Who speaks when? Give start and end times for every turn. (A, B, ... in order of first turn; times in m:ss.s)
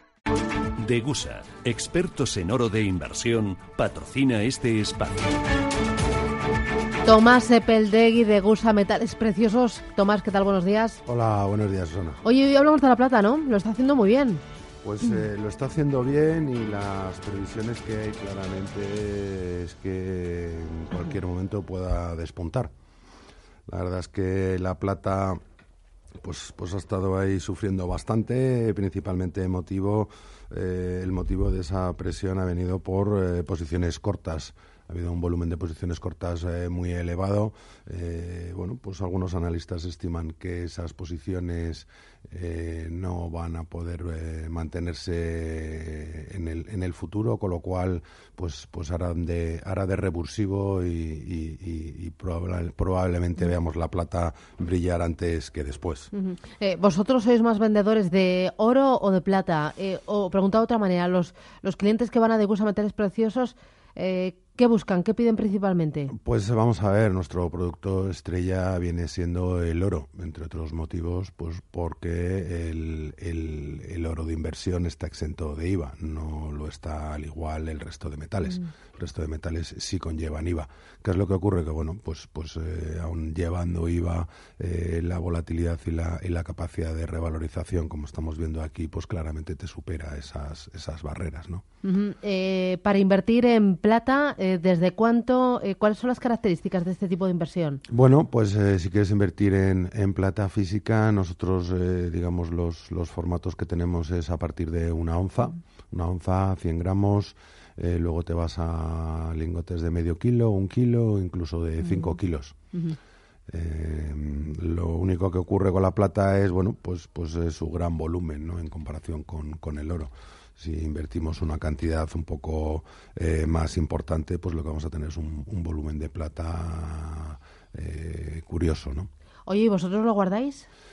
0:00.8-0:05.3 A
0:07.0-0:11.0 B
0:11.0-0:12.2 C
0:12.2-0:14.4 B
0:14.8-0:22.7 C
0:23.7-0:25.4 C
0:26.2-0:56.1 C
0:56.1-1:06.1 B
1:06.1-1:31.6 C
1:31.8-1:37.8 B
1:37.9-1:52.6 C
1:51.8-1:52.1 B
1:53.5-2:09.1 C
2:09.5-2:10.7 B